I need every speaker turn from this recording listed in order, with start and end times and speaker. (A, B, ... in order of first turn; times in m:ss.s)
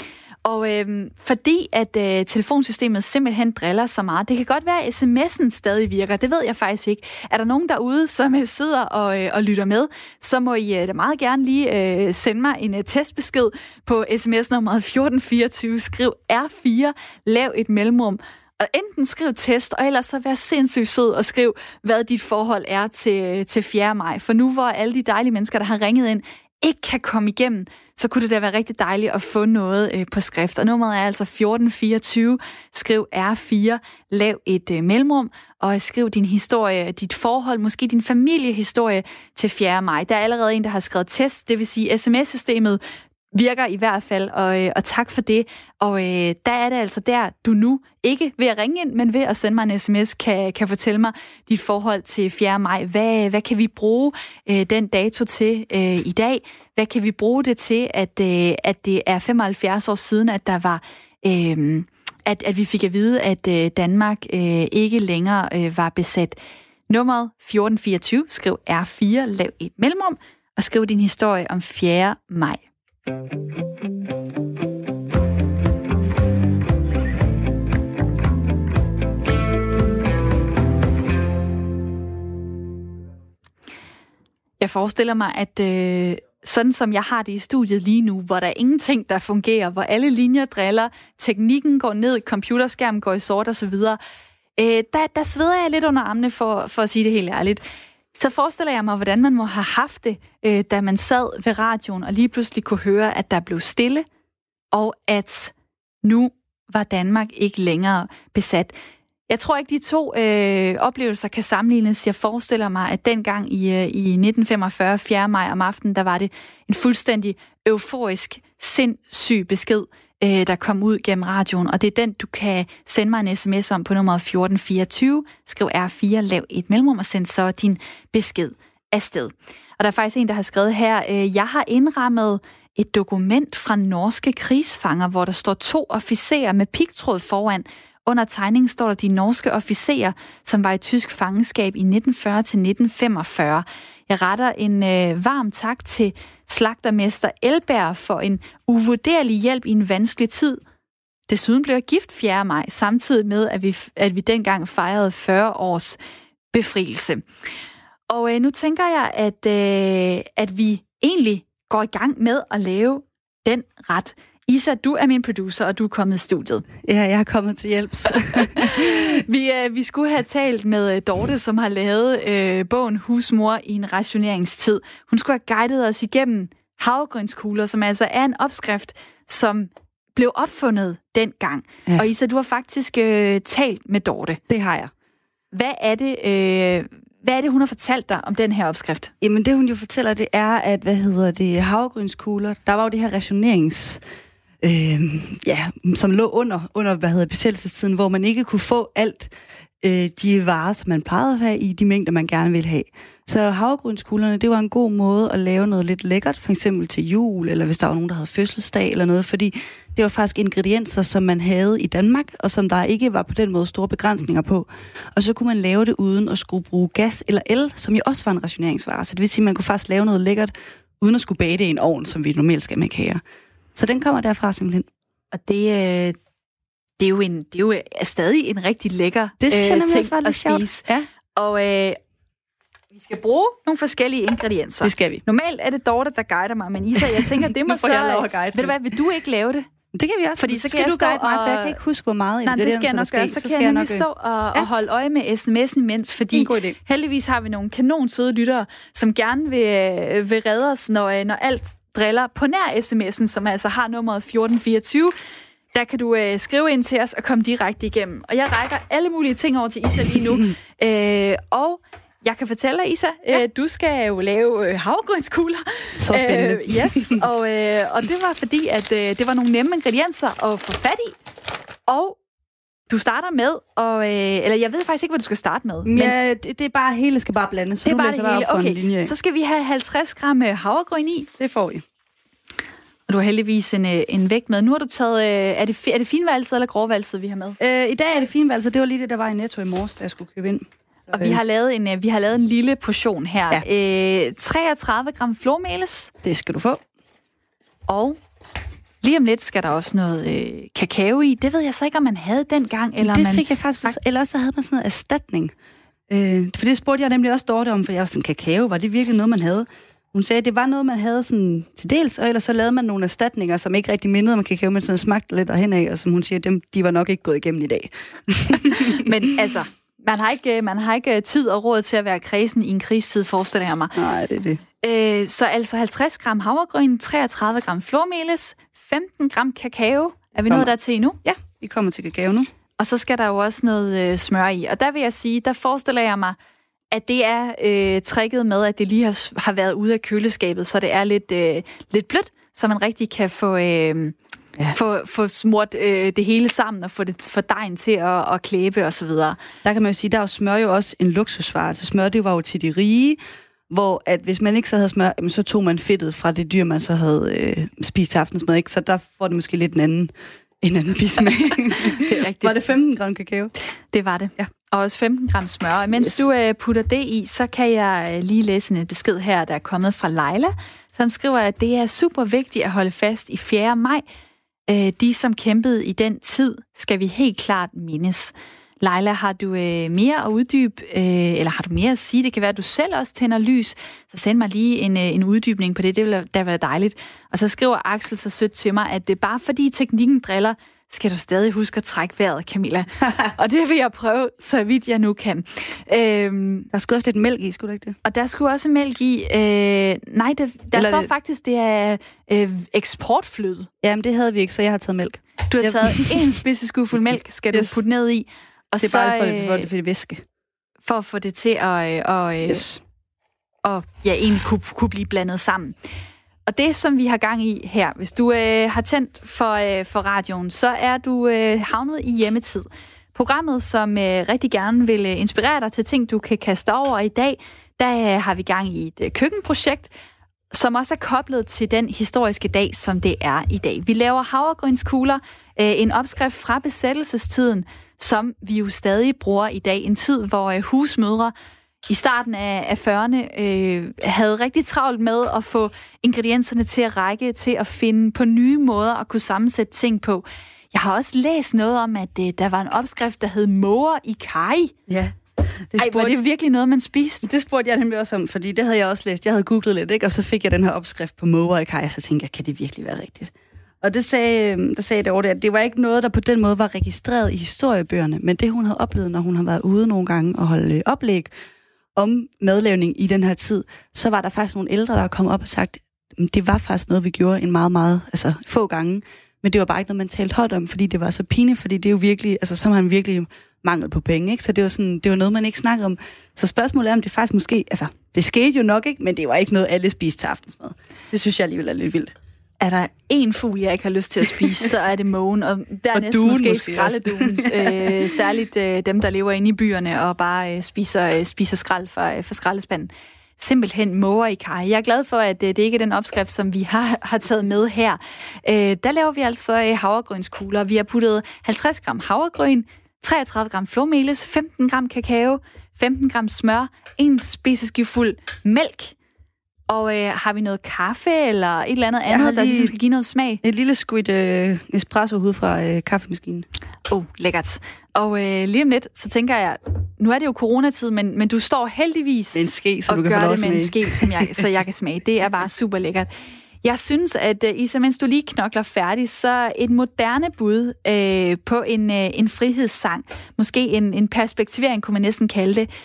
0:00.4-0:42.8 A
0:43.3-1:06.4 A
1:06.9-1:12.6 A
1:24.6-1:34.0 A
1:34.6-1:37.6 A
1:38.2-1:44.0 A
1:44.7-1:48.7 A
1:49.3-2:30.6 A
2:31.3-2:36.0 A
2:36.5-2:37.2 A
2:38.1-2:46.6 A
2:46.8-2:49.0 B
2:48.6-3:04.4 A
3:04.5-3:04.9 B
3:05.5-3:09.1 A
3:09.2-3:14.0 B
3:14.6-3:43.2 B
3:43.7-3:44.9 B
3:45.3-3:46.2 A
3:47.0-3:52.0 A
3:49.4-3:51.0 B
3:52.9-3:59.7 A
3:54.8-3:55.2 B
3:57.1-3:58.8 B
3:59.9-4:04.7 B
4:00.4-4:01.8 A
4:02.4-4:15.1 A
4:06.3-4:06.8 B
4:15.7-4:31.2 A
4:26.0-4:27.2 B
4:31.9-4:32.2 A
4:32.9-4:36.1 A
4:35.8-4:39.1 B
4:37.8-4:41.3 A
4:41.4-4:41.8 B
4:43.1-4:47.6 A
4:47.6-4:51.4 B
4:51.1-4:56.1 A
4:56.2-4:56.8 B
4:57.9-4:58.2 A
4:59.0-5:04.0 A
5:03.0-5:05.5 B
5:06.1-5:19.1 B
5:18.7-5:23.9 A
5:24.0-5:24.6 B
5:24.8-5:31.2 A
5:31.2-5:32.5 B
5:32.8-5:36.4 A
5:36.9-5:44.2 A
5:44.7-5:49.4 A
5:49.6-6:03.5 B
6:01.8-6:02.6 A
6:03.9-6:14.0 A
6:14.7-6:36.7 A
6:36.7-6:38.0 B
6:38.0-6:43.7 A
6:40.7-6:41.1 B
6:43.8-6:46.4 B
6:45.5-6:49.7 A
6:47.5-6:47.8 B
6:48.8-6:50.2 B
6:50.8-6:52.7 A
6:52.4-6:52.8 B
6:53.6-6:55.7 A
6:56.5-7:09.9 A
7:10.5-7:21.3 A
7:21.9-7:34.7 A
7:34.9-7:35.2 B
7:35.7-7:36.2 B
7:35.8-7:37.2 A
7:37.2-7:51.3 B
7:52.0-8:12.1 B
8:12.6-8:38.9 A
8:15.9-8:18.0 B
8:39.7-8:43.4 A
8:42.1-8:42.7 B
8:43.4-8:46.5 B
8:46.9-8:56.1 A
8:52.3-8:54.4 B
8:56.6-9:05.7 A